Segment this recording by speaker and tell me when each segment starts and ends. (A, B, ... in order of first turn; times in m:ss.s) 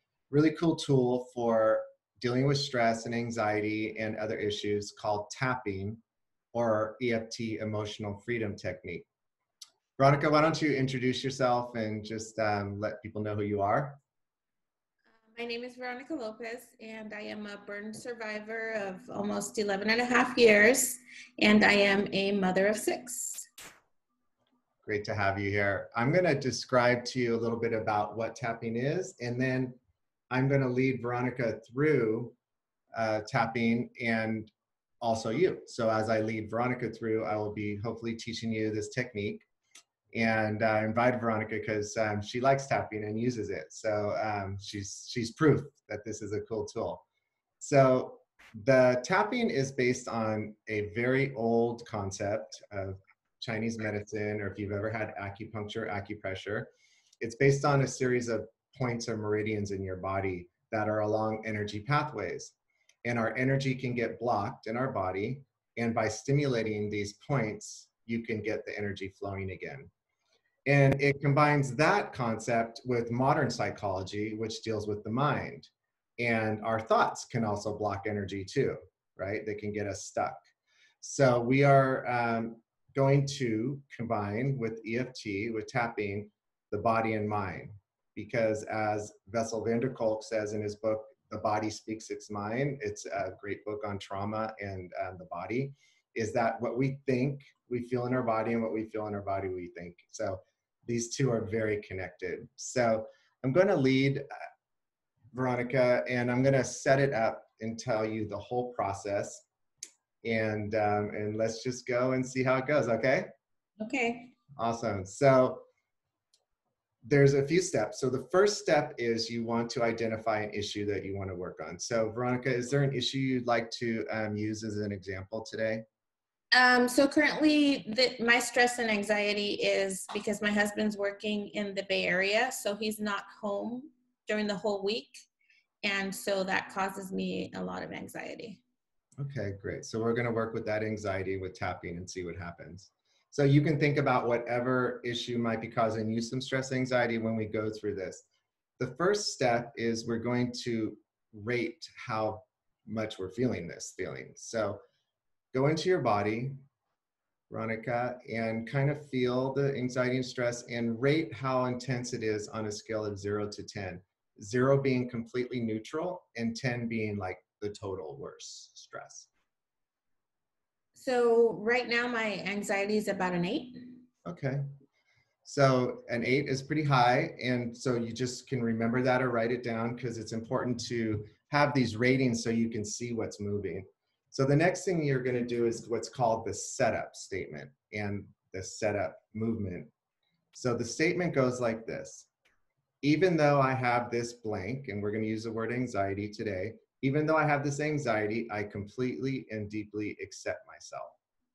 0:00.3-0:06.0 A
0:06.5-0:09.1 A
0:10.0-0:14.0 A
0:15.3-0:23.5 B
0:24.8-0:29.8 A
0:30.3-0:32.4 A
0:32.9-0:39.5 A
0:40.1-0:47.0 A
0:47.6-0:56.7 A
0:57.2-1:09.9 A
1:10.7-1:20.4 A
1:21.0-1:44.3 A
1:45.3-1:49.4 A
1:50.2-1:53.3 A
1:53.8-1:54.3 B
1:54.6-1:55.6 A
1:57.0-2:05.8 A
2:06.5-2:15.2 B
2:15.8-2:18.6 B
2:19.2-2:28.3 A
2:28.8-2:34.8 A
2:35.5-2:36.6 A
2:37.5-2:49.3 A
2:51.0-2:54.0 B
2:54.2-2:54.6 A
2:55.4-3:09.9 A
3:10.5-3:12.3 A
3:13.0-3:21.2 A